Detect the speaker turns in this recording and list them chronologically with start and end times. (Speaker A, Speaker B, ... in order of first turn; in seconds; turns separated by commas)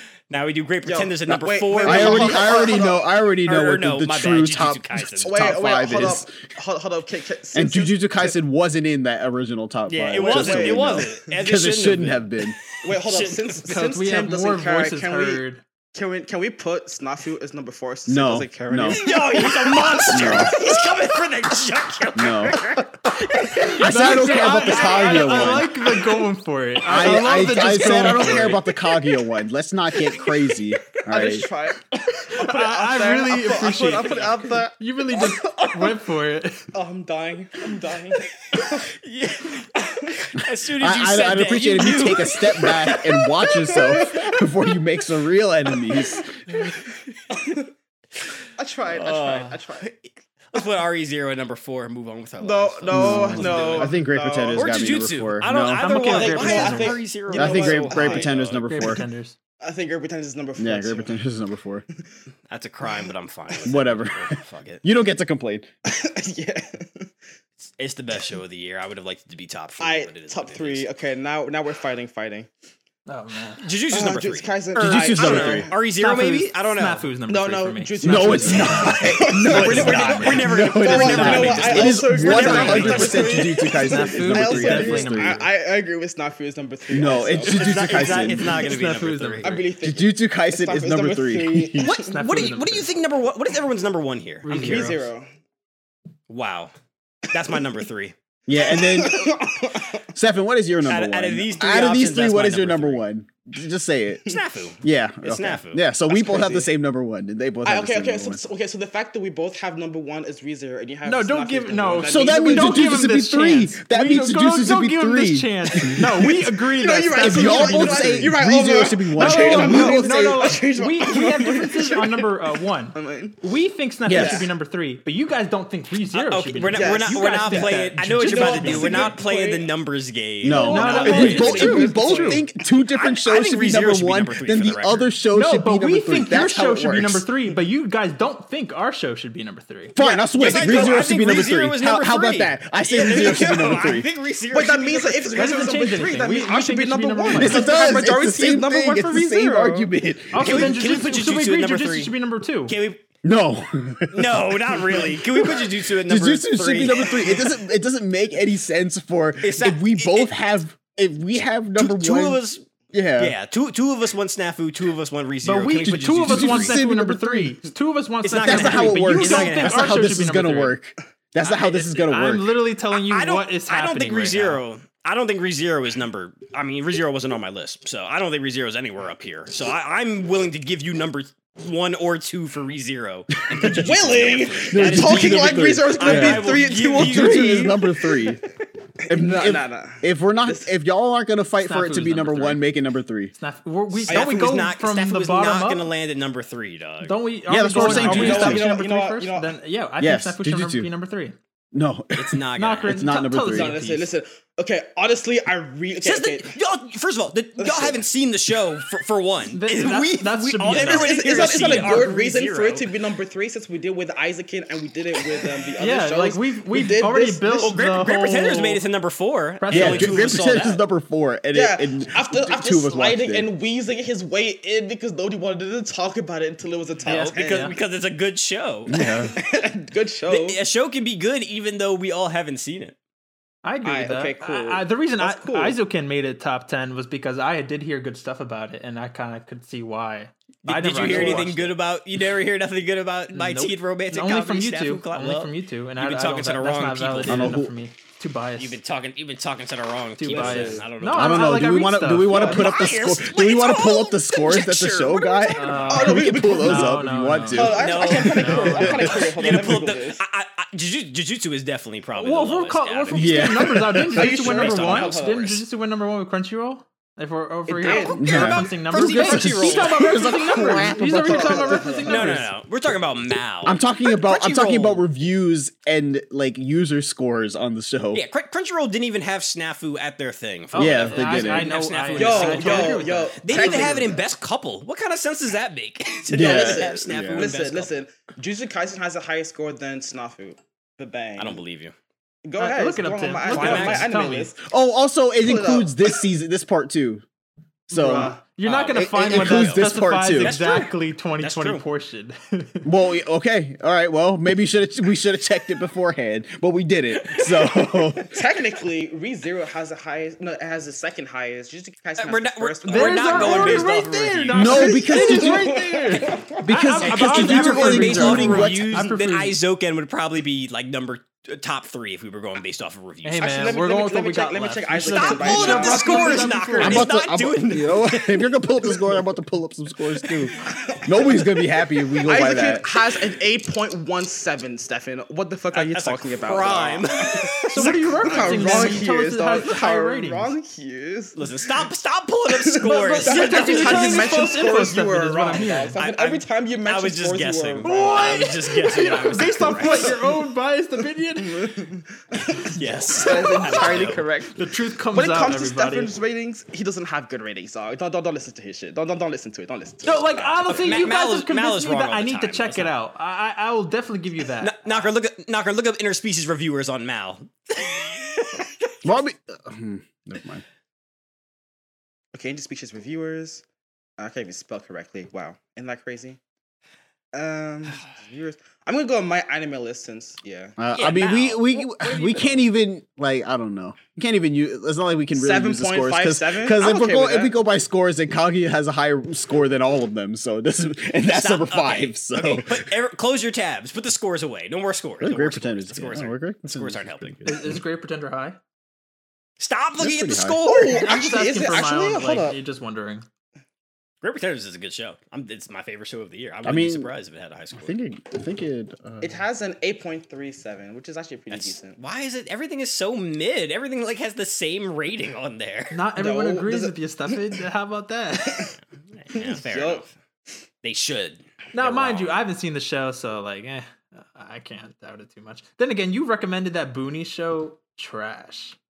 Speaker A: 0.3-2.9, Speaker B: 0.8-3.0, Speaker C: 1.8-6.3, Speaker A: 3.4-5.4, Speaker B: 5.2-8.3, Speaker C: 7.5-12.6, Speaker A: 9.9-13.6, Speaker B: 10.2-11.3, Speaker B: 12.8-15.4, Speaker D: 13.7-15.6, Speaker B: 15.9-21.2, Speaker C: 18.1-19.0, Speaker A: 18.9-23.7, Speaker C: 20.1-20.6, Speaker C: 22.1-22.6, Speaker B: 23.5-26.2, Speaker D: 23.6-28.6, Speaker C: 23.8-25.7, Speaker C: 26.9-31.4, Speaker B: 29.9-36.0, Speaker D: 32.1-36.7, Speaker B: 36.7-38.9, Speaker A: 38.9-44.1, Speaker C: 40.8-46.4, Speaker B: 43.6-44.4, Speaker B: 47.3-47.6, Speaker B: 48.6-49.9, Speaker A: 48.9-54.0, Speaker B: 52.4-54.9, Speaker C: 52.9-55.9, Speaker A: 54.5-58.9, Speaker D: 55.8-57.0, Speaker B: 56.0-58.3, Speaker C: 57.3-59.0, Speaker D: 58.6-59.3, Speaker B: 59.6-61.1, Speaker C: 60.6-61.8, Speaker A: 62.5-64.8, Speaker B: 62.8-63.7, Speaker C: 63.6-64.3, Speaker C: 64.8-65.7, Speaker B: 65.8-67.1, Speaker A: 67.6-70.9, Speaker B: 69.8-72.5, Speaker D: 73.0-73.7, Speaker A: 73.6-77.1, Speaker B: 73.9-75.7, Speaker C: 74.8-75.7, Speaker D: 75.9-80.1, Speaker B: 77.3-88.4, Speaker C: 78.0-85.4, Speaker A: 79.4-83.5, Speaker D: 82.1-85.4, Speaker C: 86.9-88.5, Speaker A: 87.4-89.7, Speaker D: 88.5-89.6, Speaker B: 89.4-92.1, Speaker C: 89.8-91.9, Speaker A: 91.8-95.0, Speaker D: 91.9-92.9, Speaker D: 94.4-95.1, Speaker B: 94.5-95.3, Speaker A: 96.3-96.7, Speaker A: 97.3-98.1, Speaker C: 98.5-99.2, Speaker B: 98.6-100.0, Speaker C: 100.1-104.2, Speaker A: 100.8-103.0, Speaker A: 104.3-105.9, Speaker C: 104.8-108.4, Speaker B: 106.1-106.7, Speaker B: 107.6-112.9, Speaker D: 111.0-118.3, Speaker C: 112.1-116.3, Speaker B: 115.8-123.4, Speaker C: 117.1-120.5, Speaker D: 119.1-129.1, Speaker C: 124.0-124.5, Speaker B: 124.1-124.5, Speaker A: 126.1-131.9, Speaker B: 126.7-129.7, Speaker C: 130.4-137.2, Speaker B: 130.4-132.4, Speaker D: 130.7-132.4, Speaker A: 132.8-135.0, Speaker D: 135.3-139.9, Speaker C: 139.9-144.1, Speaker B: 140.0-141.1, Speaker A: 140.3-145.8, Speaker B: 144.5-149.9, Speaker D: 145.3-147.7, Speaker C: 147.3-150.8, Speaker D: 150.3-152.7, Speaker A: 150.3-152.1, Speaker A: 152.7-153.0, Speaker C: 153.2-162.4, Speaker A: 154.1-157.6, Speaker A: 159.4-160.3, Speaker A: 161.7-162.6, Speaker C: 162.9-163.3, Speaker A: 163.2-166.8, Speaker D: 165.4-170.8, Speaker C: 165.8-167.6, Speaker A: 168.2-170.0, Speaker C: 168.3-172.6, Speaker D: 171.4-174.6, Speaker A: 172.9-187.8, Speaker C: 183.5-183.8, Speaker B: 183.6-188.4, Speaker C: 184.7-188.4, Speaker B: 189.0-190.7, Speaker C: 189.1-193.3, Speaker A: 191.6-192.6, Speaker D: 193.4-195.9, Speaker B: 194.1-194.6, Speaker A: 194.1-197.2, Speaker D: 197.0-201.3, Speaker C: 197.5-198.7, Speaker B: 197.8-199.5, Speaker A: 198.1-198.5, Speaker C: 200.0-200.9, Speaker C: 201.7-203.7, Speaker A: 202.1-203.0, Speaker D: 202.6-204.1, Speaker B: 203.5-206.5, Speaker A: 206.0-212.9, Speaker B: 207.6-208.0, Speaker D: 209.5-212.1, Speaker B: 210.7-217.7, Speaker D: 215.8-218.8, Speaker A: 217.6-220.8, Speaker D: 219.6-220.7, Speaker C: 219.7-223.5, Speaker B: 221.5-227.7, Speaker A: 227.0-229.5, Speaker D: 227.1-227.7, Speaker C: 228.9-229.3, Speaker B: 229.3-230.6, Speaker A: 230.3-232.9, Speaker D: 233.6-241.7, Speaker B: 233.8-235.8, Speaker A: 240.6-247.5, Speaker B: 241.0-241.5, Speaker D: 243.3-248.8, Speaker C: 247.3-247.7, Speaker A: 248.6-251.7, Speaker D: 250.2-252.7, Speaker B: 250.2-250.8, Speaker C: 251.1-259.2, Speaker B: 252.3-252.8, Speaker A: 252.3-256.0, Speaker D: 255.5-259.2, Speaker B: 255.8-260.2, Speaker A: 257.7-263.6, Speaker D: 262.1-272.5, Speaker C: 263.1-264.3, Speaker B: 264.0-265.4, Speaker A: 264.1-265.6, Speaker B: 267.7-268.5, Speaker A: 267.8-270.4, Speaker C: 268.1-272.0, Speaker B: 270.7-272.4, Speaker A: 272.1-275.0, Speaker C: 273.6-278.2, Speaker A: 278.1-287.9, Speaker D: 280.7-284.2, Speaker C: 280.8-281.7, Speaker B: 282.1-284.3, Speaker C: 286.3-287.5, Speaker B: 286.3-291.6, Speaker A: 291.4-291.9, Speaker B: 292.4-294.6, Speaker D: 292.6-294.5, Speaker A: 293.4-294.1, Speaker C: 294.6-297.2, Speaker B: 295.4-296.2, Speaker C: 297.9-298.3, Speaker D: 297.9-302.9, Speaker A: 298.6-301.8, Speaker C: 298.9-300.6, Speaker C: 302.8-308.4, Speaker A: 307.1-308.2, Speaker B: 308.3-313.9, Speaker A: 312.2-315.0, Speaker D: 312.9-319.6, Speaker C: 314.5-315.8, Speaker B: 314.7-316.6, Speaker A: 316.1-316.3, Speaker C: 316.6-319.1, Speaker A: 317.0-323.7, Speaker D: 323.2-327.1, Speaker B: 323.4-326.7, Speaker A: 325.1-329.2, Speaker C: 326.8-332.9, Speaker A: 330.1-330.5, Speaker B: 330.6-331.6, Speaker B: 332.2-341.9, Speaker A: 335.7-338.9, Speaker D: 337.7-340.5, Speaker A: 341.4-344.5, Speaker B: 342.5-348.5, Speaker D: 342.9-346.0, Speaker A: 346.0-350.2, Speaker D: 347.8-351.7, Speaker B: 349.8-350.4, Speaker B: 351.4-354.6, Speaker A: 352.7-354.2, Speaker D: 353.6-353.9, Speaker D: 354.5-356.1, Speaker B: 355.1-361.0, Speaker D: 360.0-364.8, Speaker A: 360.5-362.9, Speaker A: 364.6-368.9, Speaker C: 369.0-370.6, Speaker B: 372.3-373.6, Speaker B: 374.2-376.4, Speaker B: 377.3-380.8, Speaker C: 380.8-392.9, Speaker A: 380.9-382.7, Speaker B: 385.3-387.5, Speaker A: 391.3-397.4, Speaker C: 395.2-397.8, Speaker D: 397.4-398.6, Speaker A: 399.6-401.0, Speaker C: 400.0-400.6, Speaker B: 400.6-402.6, Speaker D: 400.8-403.2, Speaker A: 404.2-407.9, Speaker C: 406.6-407.1, Speaker C: 407.7-409.4, Speaker B: 409.2-412.0, Speaker A: 411.5-416.0, Speaker D: 415.9-418.7, Speaker B: 416.2-417.4, Speaker B: 418.4-418.7, Speaker A: 419.1-420.1, Speaker B: 419.3-420.0, Speaker A: 420.8-422.4, Speaker D: 421.7-428.8